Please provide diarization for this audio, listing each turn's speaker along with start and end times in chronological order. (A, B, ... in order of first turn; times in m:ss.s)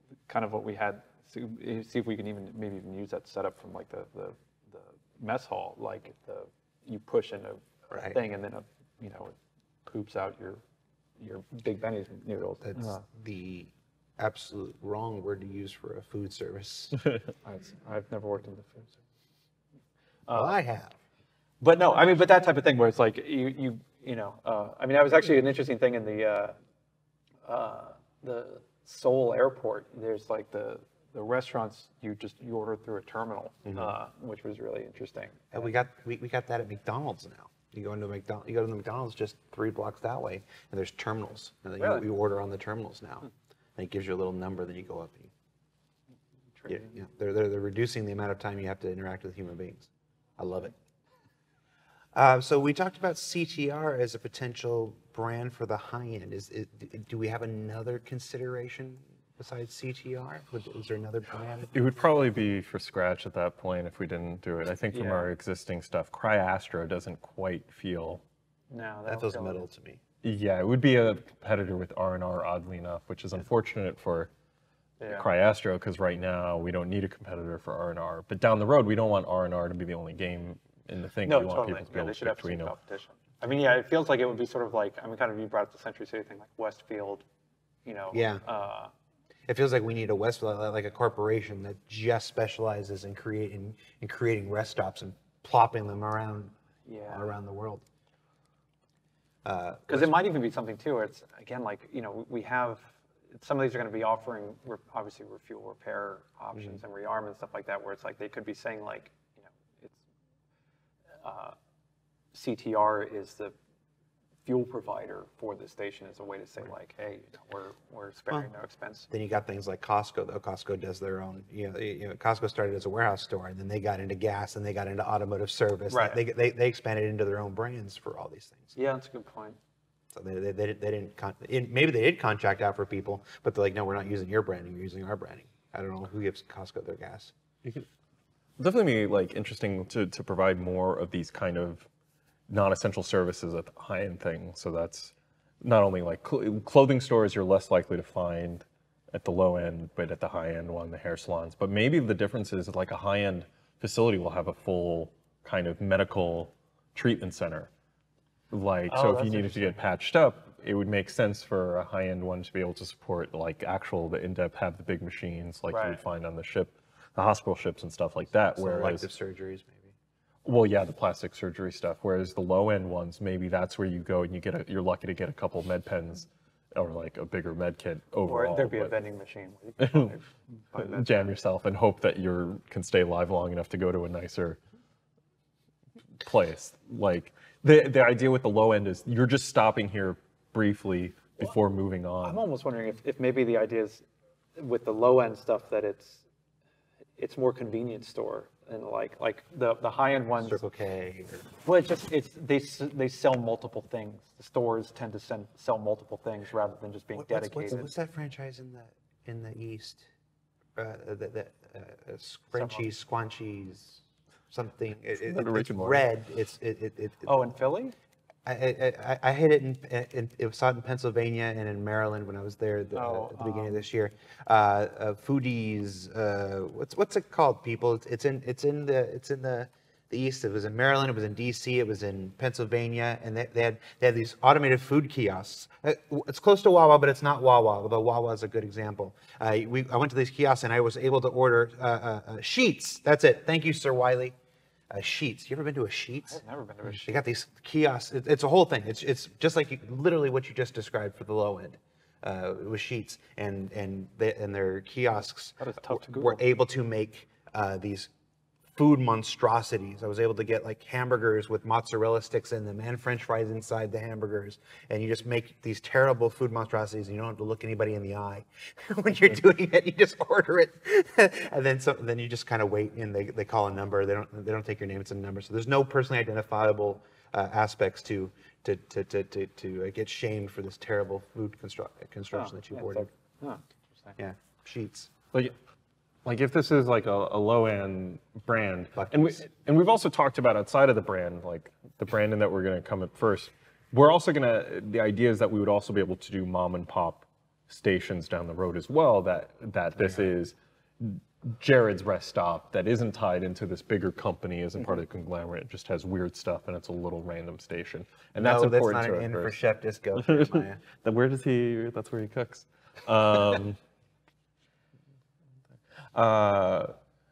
0:00.3-0:10.6 A
0:07.9-0:08.2 B
0:11.2-0:13.0 A
0:12.6-0:17.0 B
0:17.4-0:19.0 A
0:20.3-0:20.6 A
0:20.3-0:20.9 B
0:21.6-0:26.5 A
0:27.4-0:35.7 A
0:33.6-0:33.9 B
0:35.5-0:45.3 B
0:41.8-0:42.0 A
0:46.6-0:46.9 A
0:46.7-0:50.7 B
0:52.1-1:01.7 B
1:01.7-1:08.2 C
1:04.9-1:05.3 A
1:08.7-1:09.6 A
1:09.0-1:10.0 B
1:10.2-1:14.3 C
1:15.0-1:15.3 A
1:15.1-1:22.7 C
1:21.2-1:27.2 A
1:27.8-1:28.9 A
1:28.1-1:28.4 B
1:29.5-1:36.5 B
1:36.8-1:37.3 A
1:37.1-1:37.8 B
1:39.4-1:40.1 B
1:39.9-1:50.0 A
1:51.2-1:51.6 A
1:52.3-1:53.5 A
1:54.4-1:59.1 A
1:59.1-2:08.7 B
2:05.9-2:06.2 A
2:08.7-2:09.6 A
2:10.1-2:17.3 B
2:18.6-2:21.9 C
2:22.5-2:37.7 C
2:38.5-2:49.1 C
2:38.9-2:39.8 A
2:45.7-2:46.0 A
2:48.6-2:49.9 B
2:50.4-2:58.9 C
2:58.2-3:01.1 A
2:59.8-3:00.1 C
3:00.8-3:04.6 C
3:06.2-3:12.4 C
3:12.2-3:14.0 A
3:14.6-3:16.2 A
3:17.2-3:20.6 A
3:20.4-3:21.5 B
3:21.6-3:27.9 A
3:27.2-3:30.1 B
3:30.8-3:37.4 B
3:32.5-3:32.9 A
3:35.2-3:36.1 C
3:37.2-3:37.9 A
3:38.4-4:04.4 B
3:42.9-3:43.8 A
4:04.9-4:18.1 B
4:06.2-4:07.1 A
4:15.6-4:16.4 A
4:18.7-4:43.1 B
4:42.3-4:44.1 A
4:44.2-4:45.1 B
4:46.2-5:09.6 C
4:49.0-4:49.4 B
5:08.4-5:10.8 B
5:10.2-5:13.8 C
5:16.1-5:16.9 C